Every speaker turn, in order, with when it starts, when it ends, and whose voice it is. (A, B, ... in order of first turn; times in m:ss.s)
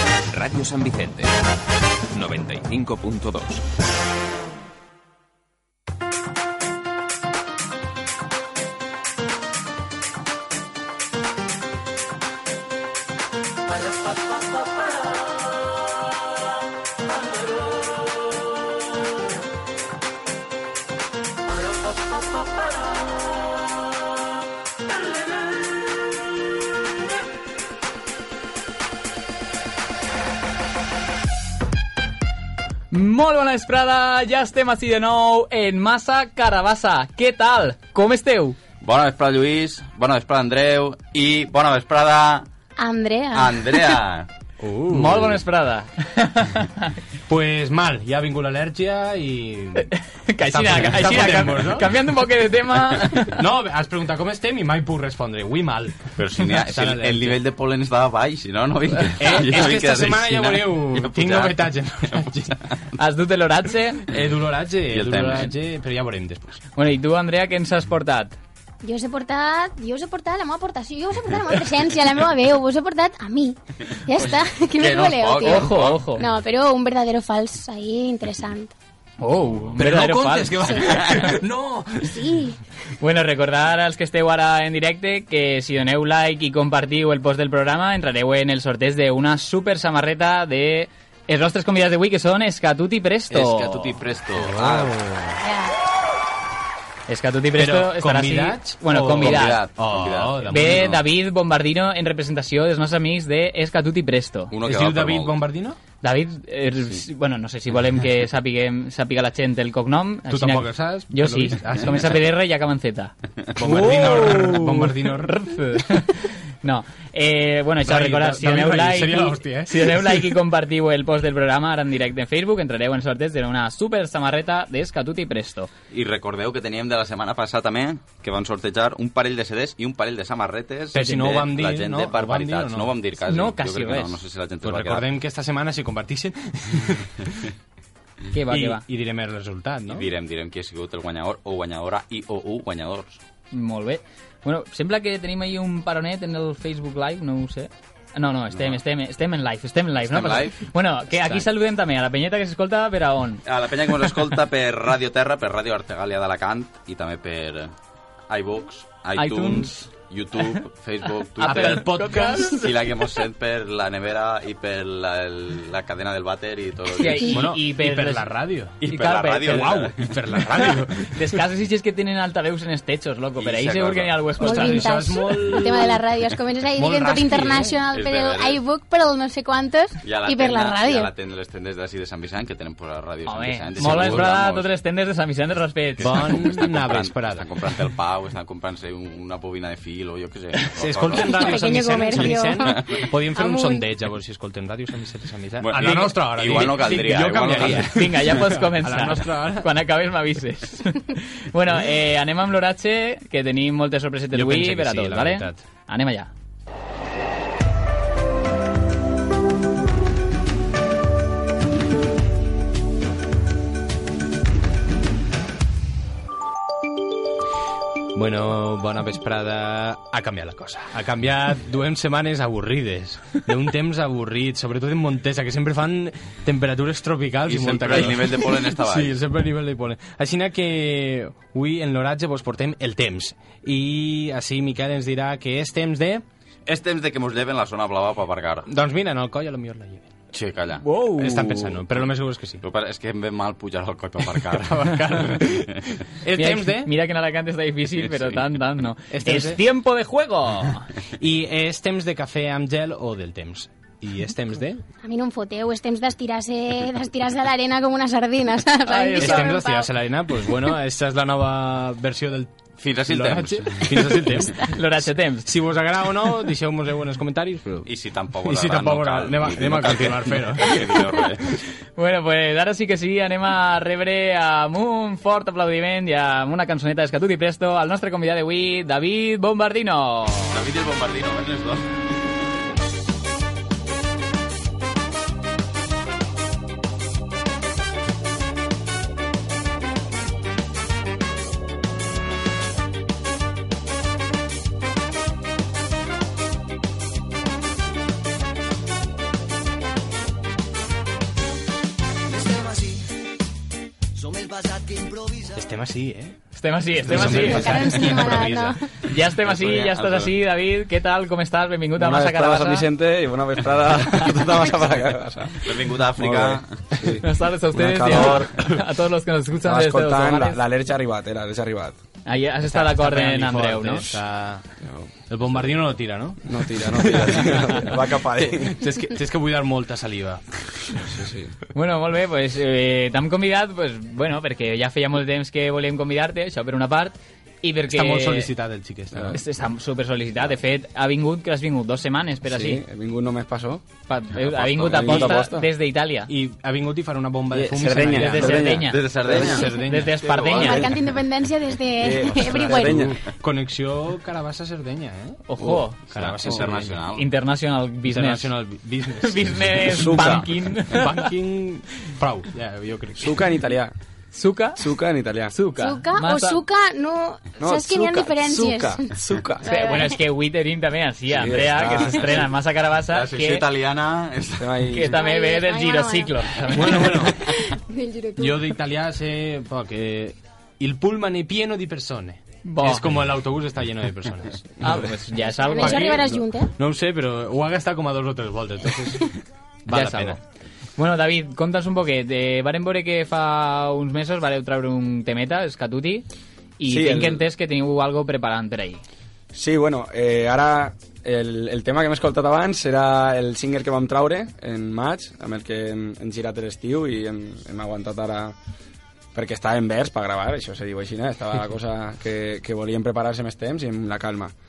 0:00.3-0:01.3 A
0:02.1-0:03.6 A
0:32.9-0:38.6 B
0:38.8-0:42.5 C
0:42.8-0:43.9 D
0:43.3-0:44.3 C
0:44.6-0:45.4 E
0:44.9-0:46.9 B
0:47.3-0:49.9 E
0:49.8-0:53.4 B
0:50.4-0:51.9 E
0:50.9-0:51.6 C
0:53.3-0:57.4 E
0:56.2-1:02.2 C
0:59.2-1:02.6 E
1:03.0-1:04.0 B
1:04.1-1:06.6 E
1:04.9-1:05.5 C
1:06.8-1:08.4 B
1:08.8-1:18.7 D
1:14.1-1:16.2 C
1:15.4-1:16.3 B
1:19.2-1:21.3 B
1:19.8-1:21.4 E
1:20.6-1:21.9 A
1:22.0-1:22.6 D
1:23.0-1:34.0 B
1:33.3-1:35.0 C
1:34.4-1:35.4 E
1:35.4-1:35.7 D
1:37.1-1:39.6 B
1:37.6-1:41.0 E
1:39.2-1:41.0 C
1:40.5-1:44.5 B
1:44.5-1:45.4 C
1:44.6-1:45.8 E
1:46.0-2:05.7 B
1:50.3-1:52.2 E
1:53.6-1:55.4 E
1:57.8-2:00.3 E
2:05.9-2:15.1 C
2:10.9-2:13.0 E
2:13.2-2:14.2 B
2:14.6-2:17.4 E
2:18.3-2:18.8 B
2:18.5-2:20.1 E
2:19.9-2:23.2 C
2:23.5-2:33.4 B
2:28.5-2:28.8 C
2:30.1-2:31.4 C
2:33.4-2:37.7 C
2:38.3-2:41.9 C
2:39.2-2:39.8 B
2:41.4-2:42.6 E
2:41.4-2:42.7 B
2:42.6-2:47.3 C
2:46.9-2:49.8 B
2:47.3-2:48.8 E
2:48.8-2:50.2 C
2:49.4-2:51.1 E
2:51.1-2:54.8 B
2:53.4-2:54.3 C
2:54.4-3:01.1 D
2:54.4-2:56.0 E
2:56.7-2:57.8 E
2:57.9-2:58.6 C
3:00.0-3:04.7 C
3:03.2-3:06.6 B
3:03.8-3:04.3 E
3:06.0-3:07.4 E
3:06.0-3:11.8 C
3:10.8-3:19.7 E
3:11.2-3:13.8 D
3:15.6-3:17.9 C
3:17.8-3:26.3 B
3:24.3-3:25.6 E
3:38.1-3:56.2 E
3:47.4-3:49.2 C
3:56.7-3:58.6 C
3:58.7-4:00.1 E
4:00.3-4:00.8 C
4:00.8-4:01.7 B
4:01.2-4:02.6 E
4:02.6-4:05.4 C
4:04.6-4:06.9 E
4:06.3-4:10.8 B
4:08.0-4:08.4 C
4:09.1-4:09.6 E
4:11.2-4:14.8 E
4:15.0-4:19.9 D
4:18.9-4:19.6 B
4:19.1-4:24.7 E
4:22.8-4:24.2 C
4:24.6-4:25.5 B
4:25.4-4:27.9 E
4:27.8-4:31.5 C
4:28.4-4:30.9 E
4:32.0-4:40.6 B
4:40.5-4:41.9 C
5:05.5-5:06.4 E
5:06.6-5:08.3 B
5:07.0-5:08.8 E
5:07.1-5:08.8 D
5:09.0-5:12.9 B
5:09.4-5:10.3 C
5:12.0-5:18.6 F
5:15.6-5:16.8 C
5:17.2-5:20.6 B
5:19.6-5:22.0 F
5:22.2-5:24.0 B
5:22.6-5:24.6 E
5:24.8-5:25.1 F
5:25.3-5:27.8 E
5:26.4-5:28.8 F
5:28.5-5:31.0 E
5:31.0-5:31.5 F
5:31.7-5:38.5 B
5:37.9-5:39.4 E
5:39.1-5:39.4 F
5:39.3-5:42.8 B
5:42.4-5:43.8 F
5:44.1-5:46.3 B
5:44.4-5:45.2 C
5:44.8-5:45.7 F
5:45.0-5:45.4 E
5:46.3-5:50.2 E
5:47.5-5:49.7 F
5:48.2-5:49.0 B
5:48.9-5:49.7 C
5:49.7-5:50.8 B
5:50.2-5:50.9 C
5:50.4-5:51.0 F
5:50.4-5:53.1 D
5:52.0-5:53.2 F
5:52.6-5:55.4 E
5:55.5-5:56.0 B
5:56.0-5:57.0 E
5:56.1-5:57.2 C
5:57.1-5:58.6 B
5:58.1-6:03.4 E
5:59.2-6:01.3 B
5:59.9-6:00.5 F
6:03.2-6:03.9 F
6:04.3-6:04.8 B
6:04.8-6:05.5 F
6:05.5-6:06.6 B
6:05.8-6:09.1 D
6:07.6-6:09.6 F
6:09.6-6:13.6 B
6:09.6-6:10.2 D
6:11.3-6:12.5 F
6:13.1-6:14.9 C
6:14.6-6:15.2 F
6:14.9-6:17.3 B
6:15.1-6:18.7 D
6:16.7-6:17.5 E
6:18.4-6:25.0 E
6:22.6-6:23.1 B
6:24.8-6:26.4 B
6:25.6-6:26.7 D
6:25.8-6:29.3 E
6:29.9-6:30.4 E
6:29.9-6:30.4 B
6:31.0-6:36.2 B
6:36.8-6:39.0 B
6:36.8-6:37.4 F
6:39.5-6:48.6 F
6:49.3-6:54.5 F